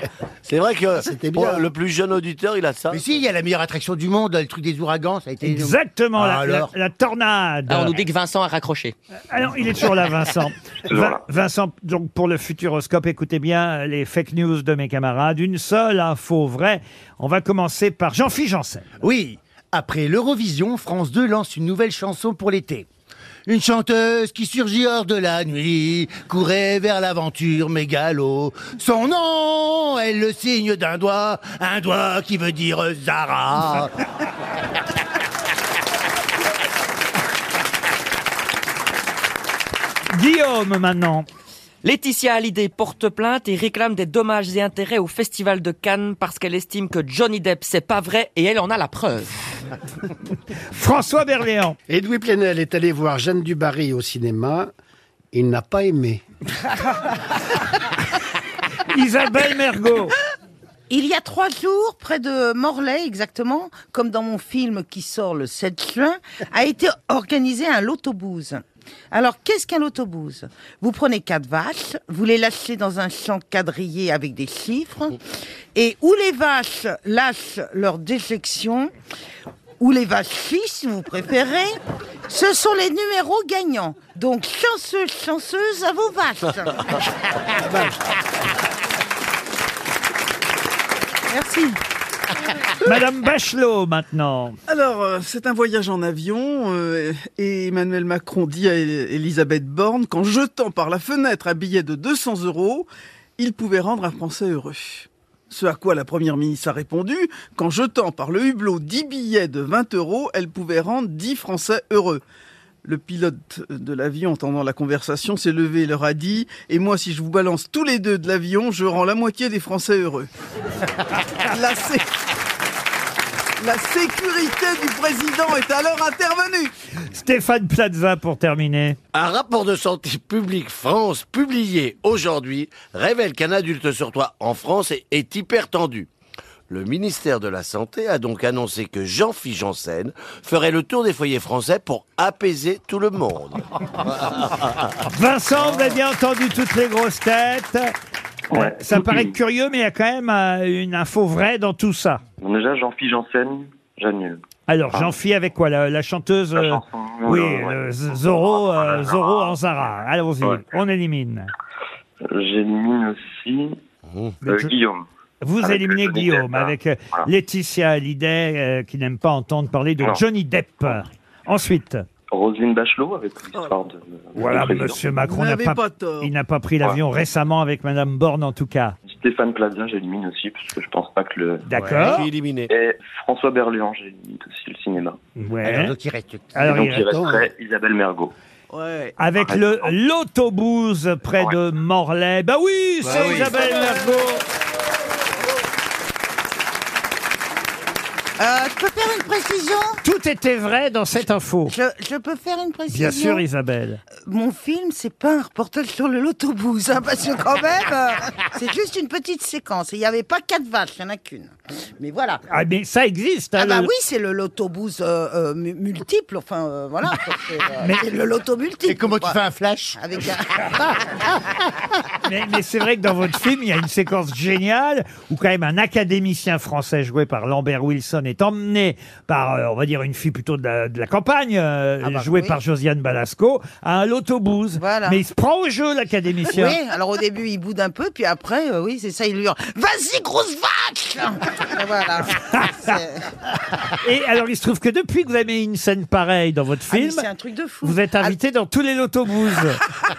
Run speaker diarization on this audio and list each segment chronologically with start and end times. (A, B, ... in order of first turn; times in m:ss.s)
0:00.4-0:03.0 A
0:01.0-0:01.6 B
0:02.9-0:06.7 C
0:05.4-0:08.0 D
0:07.7-0:08.9 E
0:09.3-0:18.8 D
0:10.9-0:11.2 F
0:19.0-0:22.9 C
0:23.4-0:33.9 C
0:40.1-0:41.2 D
0:41.8-0:49.4 E
0:50.7-0:51.8 D
0:51.9-0:54.7 B
0:55.3-0:56.2 B
0:58.9-1:00.1 D
1:00.9-1:15.2 G
1:15.7-1:18.9 G
1:19.8-1:21.7 G
1:22.3-1:26.9 G
1:27.6-1:28.0 B
1:31.3-1:31.8 G
1:32.8-1:34.6 D
1:34.7-1:52.2 H
1:52.8-2:00.3 H
2:01.4-2:02.0 H
2:03.6-2:06.7 H
2:07.1-2:09.0 D
2:09.1-2:16.1 A
2:16.7-2:24.8 A
2:25.0-2:27.9 D
2:28.5-2:29.3 F
2:28.5-2:32.2 D
2:32.4-2:34.4 F
2:34.7-2:41.5 D
2:36.5-2:37.8 F
2:38.5-2:39.5 F
2:42.2-2:43.8 F
2:44.4-2:44.7 D
2:44.4-2:45.0 F
2:45.4-2:52.0 D
2:45.6-2:47.3 F
2:52.3-2:55.0 F
2:54.4-2:59.0 D
2:55.2-2:56.3 H
2:59.1-3:01.7 F
3:01.6-3:02.2 D
3:01.7-3:02.1 C
3:01.9-3:02.7 A
3:02.7-3:05.2 F
3:05.4-3:05.9 D
3:05.6-3:06.7 C
3:06.5-3:07.0 D
3:06.6-3:08.3 F
3:07.1-3:07.4 B
3:08.7-3:09.2 H
3:09.2-3:14.4 D
3:09.4-3:09.8 F
3:13.0-3:14.2 H
3:18.4-3:20.0 G
3:20.0-3:21.7 D
3:21.7-3:23.4 G
3:22.9-3:24.0 D
3:24.2-3:32.4 G
3:32.5-3:33.9 D
3:33.6-3:39.4 G
3:38.9-3:40.0 C
3:40.0-3:40.9 G
3:42.2-3:56.8 D
3:52.0-3:52.6 G
3:54.7-3:55.2 G
3:56.5-4:03.3 G
4:04.0-4:07.2 D
4:06.9-4:08.4 G
4:07.8-4:09.8 D